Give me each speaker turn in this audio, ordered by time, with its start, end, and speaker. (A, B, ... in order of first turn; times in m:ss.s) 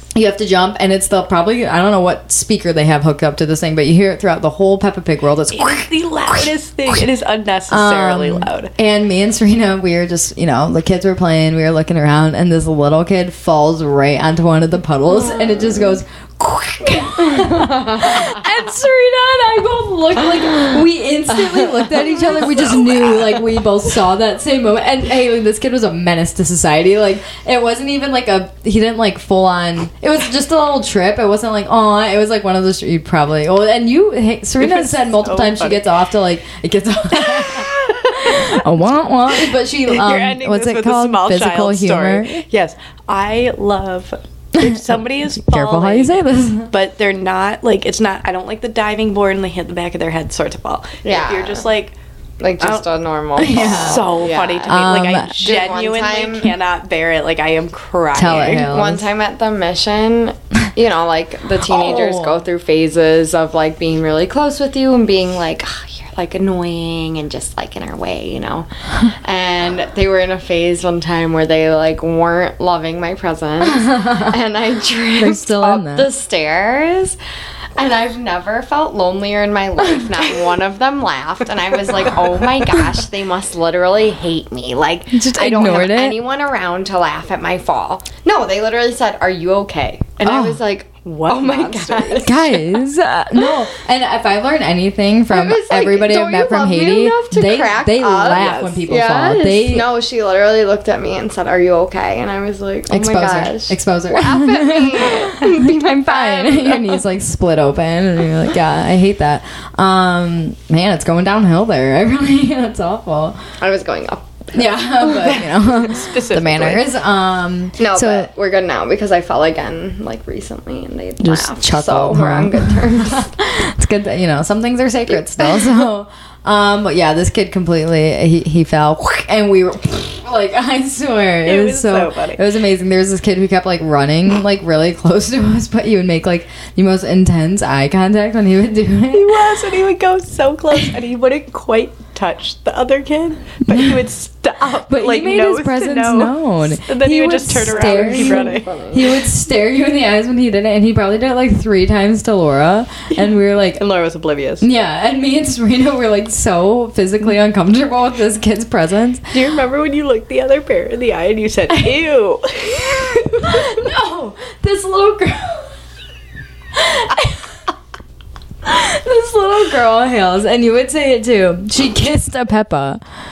0:00.1-0:06.5 A
0:05.5-0:08.7 B
0:07.7-0:42.4 A
0:17.4-0:18.1 C
0:34.6-0:35.8 B
0:37.2-0:38.6 B
0:39.5-0:52.0 B
0:44.6-0:46.7 A
0:51.0-0:51.7 C
0:52.4-0:54.8 C
0:52.6-0:52.9 B
0:53.4-0:54.1 A
0:53.6-0:58.7 B
0:54.7-0:55.3 A
0:55.4-0:56.5 C
0:58.2-0:59.1 A
0:58.6-1:17.2 C
1:01.6-1:02.4 A
1:13.7-1:14.4 A
1:15.2-1:16.1 A
1:17.8-1:32.5 C
1:19.8-1:20.2 A
1:25.1-1:26.2 A
1:30.2-1:30.6 A
1:31.0-1:32.4 B
1:32.2-1:39.9 A
1:35.3-1:47.0 C
1:38.3-1:38.8 B
1:42.9-1:53.4 A
1:53.6-1:54.8 C
1:54.5-1:58.3 A
1:55.0-1:56.9 B
1:57.8-2:03.3 C
2:01.2-2:19.5 A
2:05.1-2:05.7 C
2:11.4-2:12.4 B
2:19.1-2:28.7 B
2:24.9-2:33.8 A
2:27.7-2:29.0 C
2:33.1-2:34.7 B
2:34.6-2:39.2 A
2:39.3-2:43.7 B
2:43.4-2:45.7 A
2:46.7-2:47.5 A
2:48.6-2:53.0 A